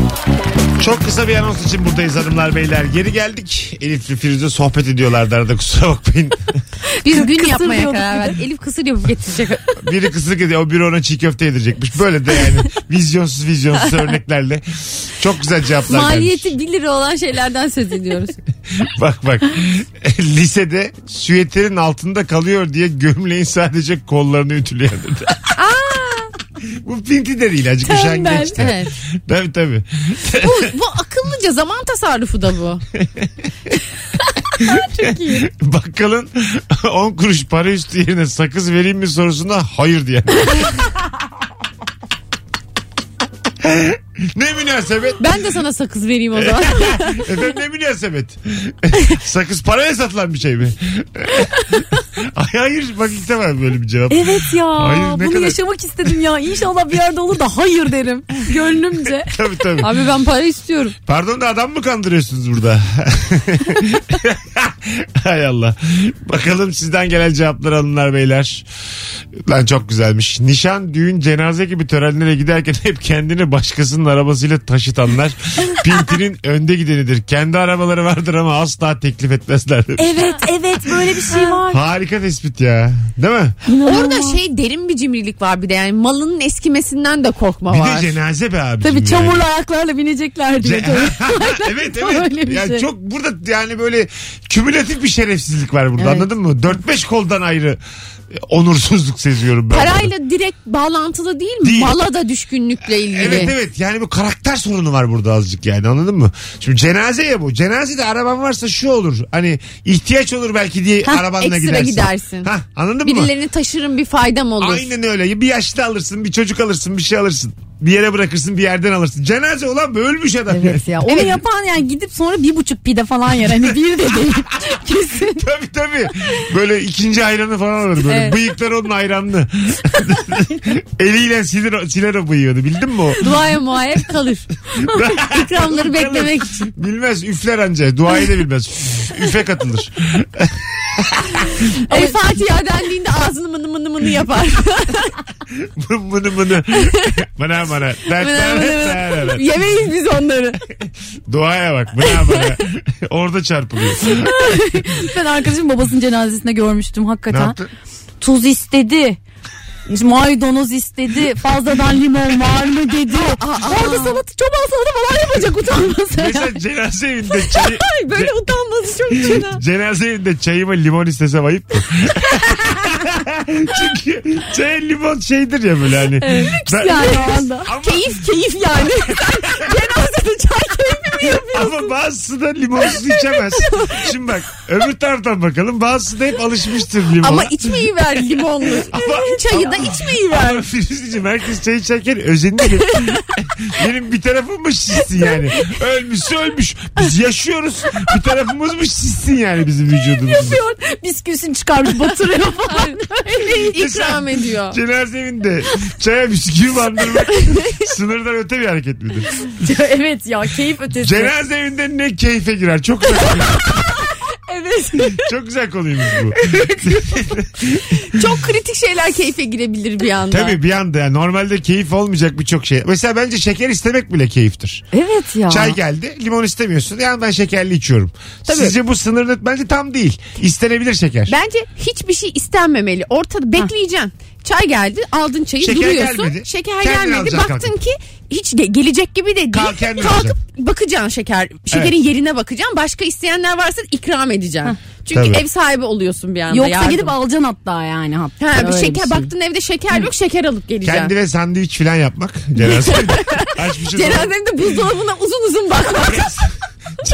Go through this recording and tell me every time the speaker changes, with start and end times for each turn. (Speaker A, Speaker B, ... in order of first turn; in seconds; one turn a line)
Speaker A: 0.8-6.5
Speaker B: 7.0-9.7
Speaker C: 7.0-8.4
Speaker A: 9.8-16.5
Speaker B: 15.8-18.4
Speaker A: 18.8-25.5
Speaker B: 25.6-26.3
Speaker A: 26.7-30.7
Speaker C: 27.8-28.6
Speaker B: 28.3-28.9
Speaker B: 30.4-32.8
Speaker A: 33.0-33.4
Speaker A: 34.7-40.7
Speaker C: 34.7-35.4
Speaker A: 43.6-45.2
Speaker B: 45.2-47.3
Speaker A: 46.3-55.6
Speaker C: 54.1-59.3
Speaker A: 59.3-59.9
Speaker B: 59.8-60.9
Speaker A: 61.0-68.7
Speaker A: 69.4-81.0
Speaker C: 80.0-81.8
Speaker A: 81.7-83.5
Speaker C: 83.7-84.4
Speaker B: 83.8-88.1
Speaker A: 87.7-89.5
Speaker C: 88.8-92.8
Speaker A: 90.6-97.8
Speaker B: 96.0-96.3
Speaker A: 98.3-100.1
Speaker B: 99.7-103.5
Speaker A: 101.6-101.9
Speaker A: 103.0-113.3
Speaker B: 111.1-112.5
Speaker B: 113.0-114.9
Speaker A: 114.6-120.8
Speaker C: 120.5-125.4
Speaker A: 125.2-133.2
Speaker C: 128.1-128.4
Speaker B: 133.2-136.7
Speaker A: 134.8-141.3
Speaker B: 141.8-145.1
Speaker A: 145.5-149.5
Speaker B: 148.2-150.6
Speaker A: 151.3-154.3
Speaker B: 152.1-152.4
Speaker C: 154.1-157.6
Speaker A: 157.3-157.7
Speaker C: 158.2-159.2
Speaker C: 159.9-166.5
Speaker B: 163.4-165.1
Speaker A: 166.2-168.3
Speaker B: 167.4-169.6
Speaker A: 169.1-178.1
Speaker C: 176.2-177.7
Speaker B: 176.3-181.7
Speaker C: 180.7-181.6
Speaker A: 181.5-187.9
Speaker B: 183.5-184.0
Speaker B: 187.2-190.6
Speaker A: 188.9-200.6
Speaker C: 200.2-203.8
Speaker B: 202.7-204.8
Speaker A: 203.8-209.5
Speaker C: 209.5-211.3
Speaker A: 211.0-213.8
Speaker C: 213.2-213.9
Speaker C: 214.5-215.3
Speaker A: 215.1-217.8
Speaker B: 216.6-216.9
Speaker B: 218.0-220.6
Speaker A: 220.3-224.8
Speaker C: 224.9-225.8
Speaker A: 225.5-231.3
Speaker B: 228.5-228.7
Speaker B: 231.3-247.1
Speaker A: 235.6-237.7
Speaker A: 239.5-240.3
Speaker A: 245.1-245.4
Speaker C: 246.5-249.3
Speaker B: 248.4-251.1
Speaker A: 250.8-254.3
Speaker B: 252.6-256.5